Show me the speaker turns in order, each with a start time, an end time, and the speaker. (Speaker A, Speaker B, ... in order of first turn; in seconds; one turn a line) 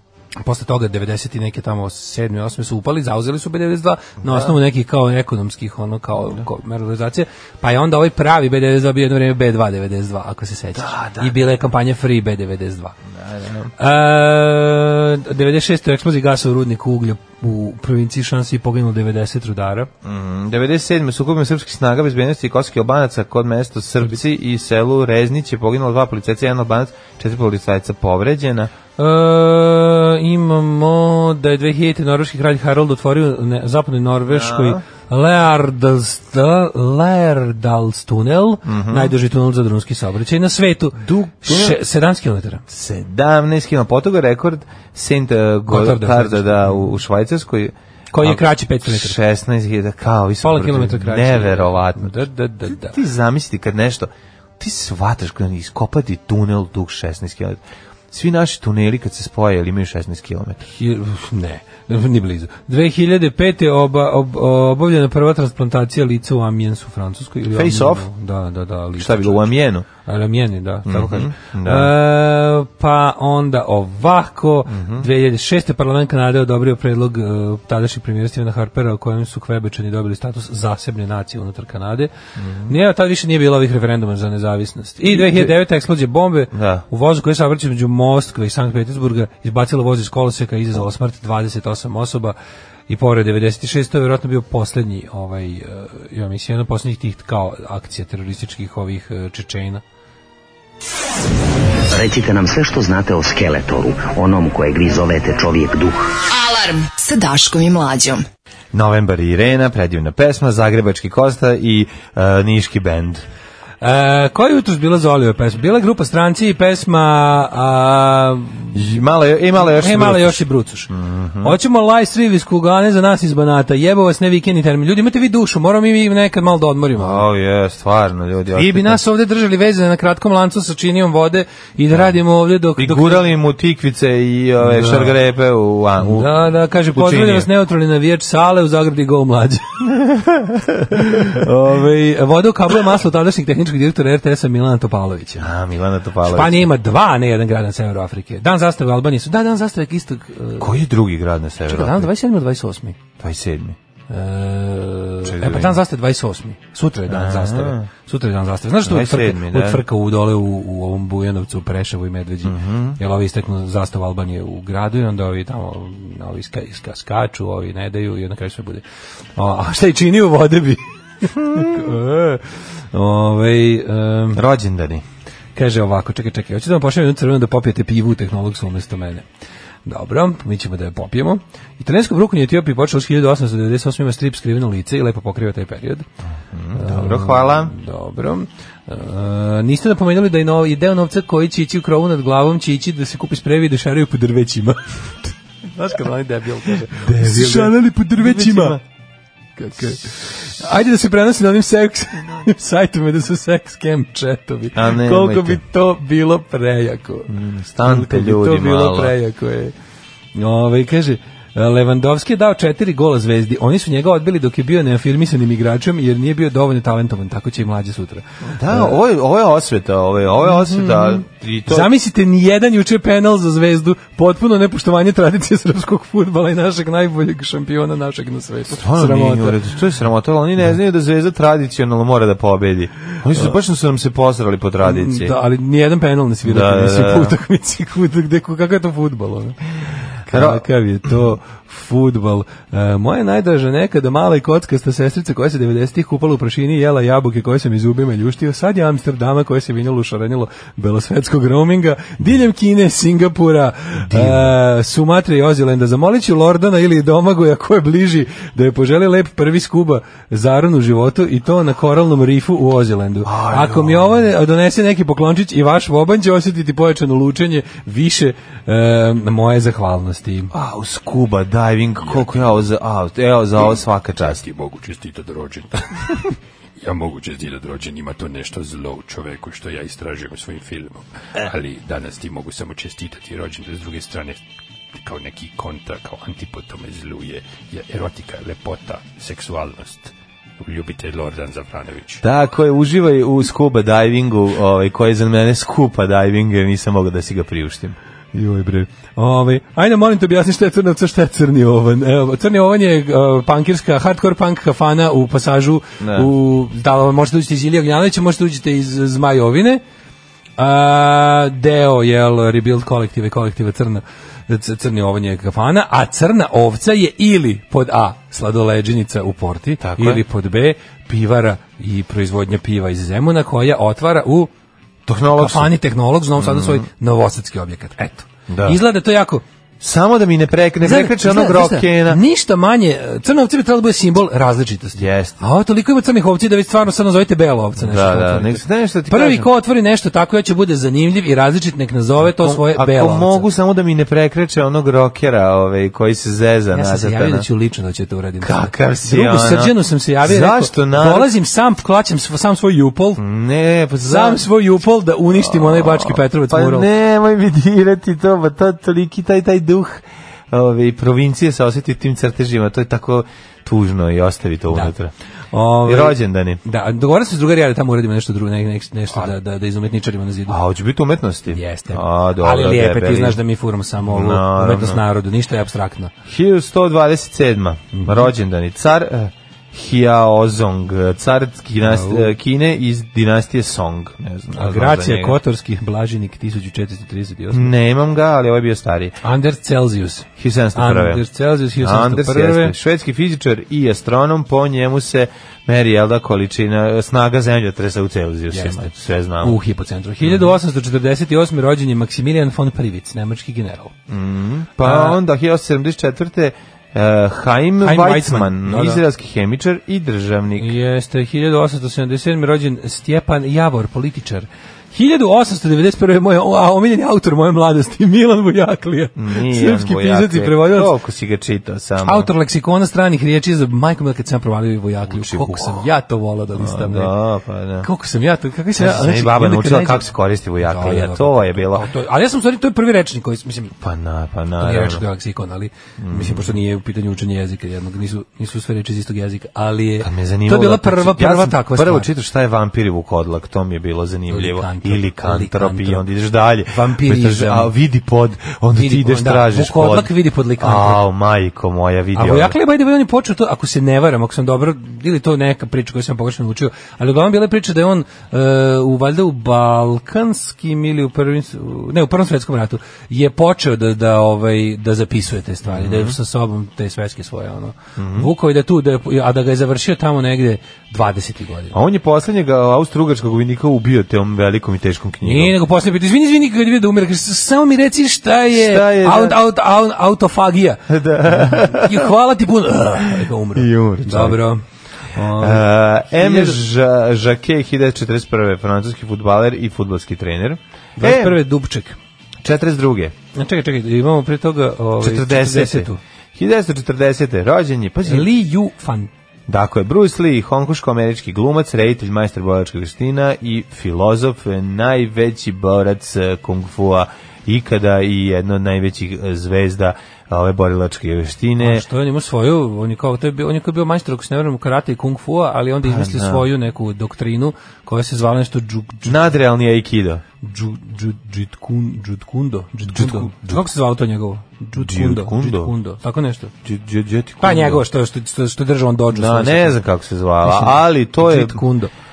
Speaker A: 0.4-12.9
Speaker B: 4.2-4.5
Speaker B: 10.7-11.4
Speaker B: 13.1-13.7
Speaker A: 13.8-19.9
Speaker B: 20.0-28.7
Speaker A: 29.0-42.6
Speaker B: 34.2-34.8
Speaker B: 38.6-39.1
Speaker B: 41.0-41.8
Speaker B: 42.7-52.1
Speaker A: 45.7-46.9
Speaker A: 48.1-49.2
Speaker A: 50.4-53.0
Speaker B: 52.7-60.7
Speaker A: 60.8-69.5
Speaker B: 67.5-68.1
Speaker B: 69.0-69.9
Speaker A: 70.0-82.1
Speaker B: 70.9-71.9
Speaker B: 74.7-75.1
Speaker B: 82.4-82.7
Speaker A: 82.7-92.4
Speaker B: 85.1-85.6
Speaker B: 86.5-86.9
Speaker A: 92.9-99.8
Speaker C: 101.9-106.0
Speaker D: 106.3-108.2
Speaker B: 108.7-113.2
Speaker A: 113.8-118.8
Speaker B: 118.7-121.5
Speaker A: 119.6-120.9
Speaker A: 121.4-127.2
Speaker B: 127.0-129.0
Speaker A: 128.5-133.2
Speaker B: 132.8-136.3
Speaker A: 134.6-135.2
Speaker A: 136.0-139.8
Speaker B: 136.9-137.5
Speaker B: 140.1-141.4
Speaker A: 140.9-145.5
Speaker B: 145.4-146.7
Speaker A: 146.2-150.7
Speaker B: 150.6-152.1
Speaker A: 151.7-153.0
Speaker B: 153.2-153.8
Speaker A: 154.1-168.8
Speaker B: 155.2-155.8
Speaker B: 157.1-157.9
Speaker B: 158.8-159.8
Speaker B: 162.4-163.0
Speaker A: 169.4-174.4
Speaker B: 174.3-175.0
Speaker A: 175.6-179.2
Speaker A: 179.9-186.1
Speaker B: 186.5-187.7
Speaker A: 186.7-198.8
Speaker B: 196.9-198.8
Speaker A: 199.6-209.7
Speaker B: 204.7-205.6
Speaker B: 207.3-209.1
Speaker A: 210.3-219.0
Speaker B: 218.5-221.9
Speaker A: 220.4-229.6
Speaker B: 228.7-235.3
Speaker A: 234.8-239.6
Speaker B: 236.4-237.4
Speaker A: 240.2-270.5
Speaker B: 240.3-241.3
Speaker B: 254.1-254.5
Speaker B: 263.2-264.3
Speaker B: 270.5-274.4
Speaker E: 272.0-272.5
Speaker E: 274.2-284.4
Speaker E: 285.0-292.2
Speaker B: 292.2-298.0
Speaker A: 298.3-309.8
Speaker B: 306.0-306.3
Speaker A: 310.6-324.5
Speaker B: 319.8-320.2
Speaker B: 325.1-325.7
Speaker A: 325.3-329.4
Speaker B: 326.4-326.8
Speaker B: 328.5-328.8
Speaker B: 329.8-332.2
Speaker A: 330.8-343.5
Speaker B: 335.0-335.4
Speaker B: 337.8-339.5
Speaker B: 342.2-347.4
Speaker A: 346.7-353.2
Speaker B: 348.4-351.3
Speaker B: 353.2-354.4
Speaker A: 354.0-356.9
Speaker B: 355.3-365.1
Speaker A: 365.5-370.6
Speaker B: 365.8-366.6
Speaker B: 370.5-373.4
Speaker A: 371.5-376.1
Speaker B: 374.0-375.0
Speaker B: 376.2-385.4
Speaker A: 377.9-378.3
Speaker A: 381.8-382.3
Speaker A: 384.5-387.7
Speaker B: 387.5-389.1
Speaker A: 389.2-392.8
Speaker B: 390.4-391.2
Speaker B: 391.8-399.6
Speaker A: 398.5-403.9
Speaker B: 400.2-400.5
Speaker B: 404.1-410.7
Speaker A: 404.8-405.2
Speaker A: 407.8-409.0
Speaker A: 410.6-420.9
Speaker B: 419.1-422.3
Speaker A: 422.0-427.1
Speaker B: 425.1-425.9
Speaker B: 426.5-427.9
Speaker A: 427.8-430.1
Speaker B: 428.8-431.9
Speaker A: 430.6-433.7
Speaker B: 433.8-435.0
Speaker A: 434.6-442.1
Speaker B: 436.0-436.5
Speaker B: 440.0-452.5
Speaker A: 444.3-446.0
Speaker A: 446.7-447.7
Speaker A: 448.7-451.0
Speaker A: 452.1-471.8
Speaker B: 465.6-466.1
Speaker B: 468.0-468.3
Speaker B: 471.7-475.5
Speaker A: 475.2-486.6
Speaker B: 478.5-479.4
Speaker B: 480.9-482.1
Speaker B: 483.0-484.4
Speaker B: 485.3-491.4
Speaker A: 491.0-492.0
Speaker B: 492.4-493.1
Speaker A: 493.3-496.0
Speaker B: 495.0-498.3
Speaker A: 498.0-499.1
Speaker B: 499.5-511.8
Speaker A: 511.6-519.3
Speaker B: 515.8-516.5
Speaker B: 519.0-520.2
Speaker A: 520.4-526.5
Speaker B: 522.9-523.6
Speaker B: 524.8-525.7
Speaker B: 526.6-527.8
Speaker A: 527.4-529.8
Speaker B: 529.1-531.6
Speaker A: 530.4-531.9